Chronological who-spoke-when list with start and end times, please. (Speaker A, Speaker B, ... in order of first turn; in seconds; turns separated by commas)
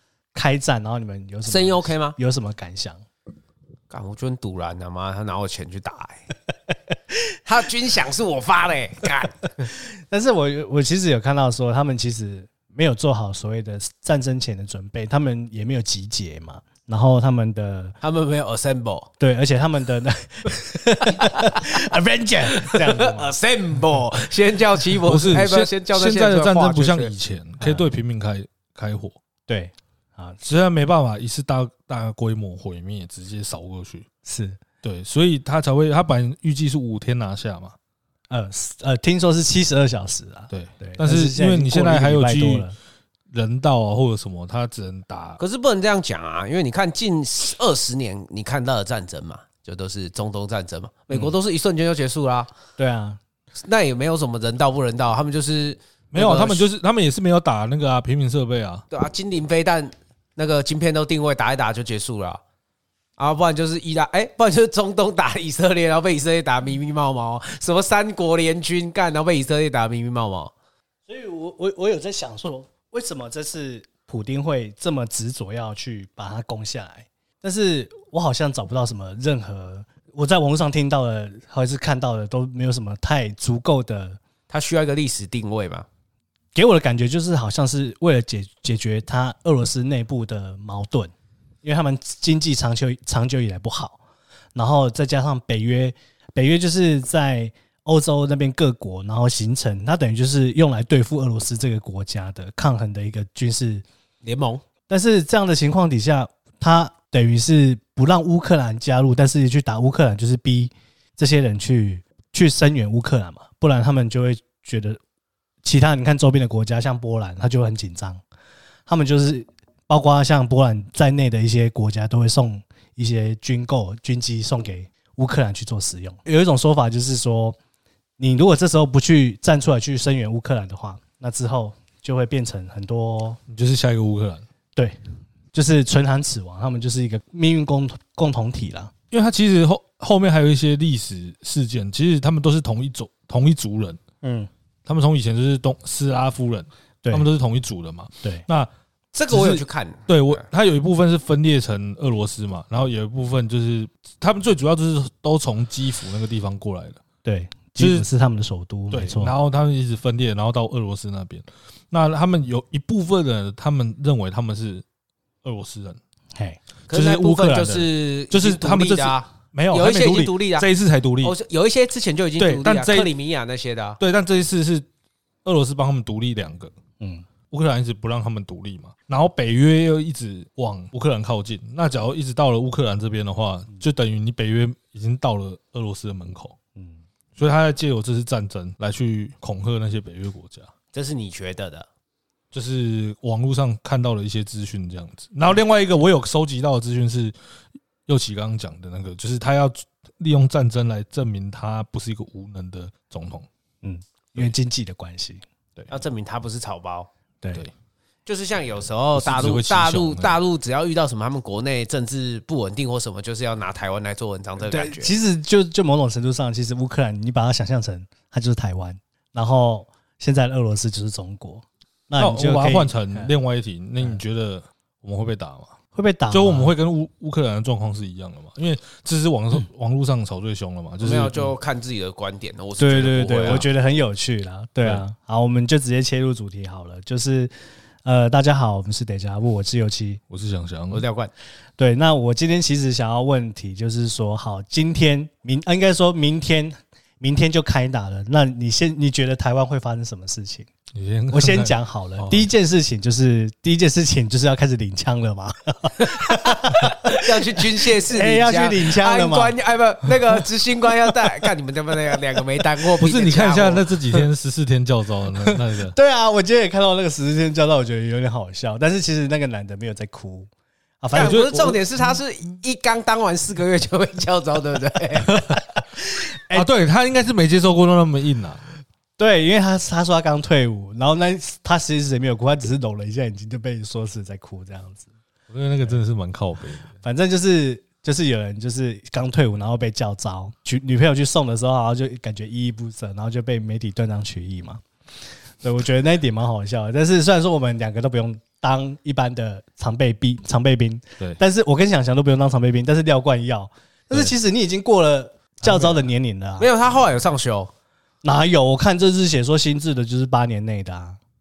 Speaker A: 0.3-3.0, Speaker B: 1.4-2.2, Speaker B: 3.9-6.3, Speaker B: 7.5-9.7, Speaker A: 9.9-17.9, Speaker B: 18.0-19.1, Speaker A: 19.2-23.3, Speaker B: 21.2-21.6, Speaker B: 22.5-27.1, Speaker C: 25.1-29.2, Speaker A: 29.5-30.4, Speaker C: 30.4-34.0, Speaker A: 34.2-34.6, Speaker C: 34.8-37.7, Speaker A: 38.3-42.7, Speaker C: 40.5-42.7, Speaker C: 43.3-45.4, Speaker B: 45.4-52.5, Speaker A: 52.8-53.2, Speaker B: 53.6-56.6, Speaker C: 56.1-58.9, Speaker B: 58.9-62.4, Speaker B: 63.2-70.5, Speaker A: 71.1-84.2, Speaker B: 84.5-85.8, Speaker A: 86.5-94.0, Speaker A: 94.5-103.8, Speaker B: 104.2-104.6, Speaker A: 104.9-115.0, Speaker A: 115.6-118.2, Speaker A: 118.9-127.6, Speaker A: 128.2-133.4, Speaker C: 133.5-134.4, Speaker A: 135.5-138.9, Speaker C: 139.1-144.0, Speaker A: 144.2-144.5, Speaker C: 144.9-148.7, Speaker B: 149.2-150.4, Speaker C: 149.3-157.0, Speaker A: 157.2-159.4, Speaker C: 157.8-158.1, Speaker C: 158.9-164.8, Speaker C: 165.4-166.0, Speaker A: 166.3-166.6, Speaker B: 166.9-170.7, Speaker C: 166.9-171.3, Speaker B: 171.2-174.0, Speaker C: 172.4-173.1, Speaker C: 174.0-174.9, Speaker C: 175.4-176.7, Speaker A: 177.0-177.2, Speaker C: 177.5-186.6, Speaker A: 186.8-187.0, Speaker C: 187.4-190.7, Speaker B: 190.9-191.9, Speaker C: 192.5-197.3, Speaker C: 198.1-203.5, Speaker A: 203.8-205.9, Speaker B: 205.9-207.1, Speaker B: 208.2-215.1, Speaker C: 209.2-210.4, Speaker A: 214.7-223.3, Speaker C: 222.2-225.7, Speaker A: 225.9-226.8, Speaker C: 226.3-231.5, Speaker B: 231.0-233.7, Speaker A: 232.8-237.5, Speaker A: 238.0-240.2, Speaker C: 240.3-241.0, Speaker B: 240.9-241.3, Speaker A: 241.8-250.7, Speaker C: 250.9-252.5, Speaker A: 251.3-259.5, Speaker B: 256.0-264.2, Speaker C: 263.0-265.9, Speaker A: 265.4-270.5, Speaker A: 271.0-271.7, Speaker B: 271.1-275.5, Speaker C: 271.1-271.8, Speaker A: 276.2-276.7, Speaker C: 276.5-278.6, Speaker A: 279.2-285.1, Speaker C: 285.5-286.9, Speaker A: 287.0-294.8, Speaker A: 295.6-306.7, Speaker B: 306.6-307.7, Speaker A: 308.2-311.2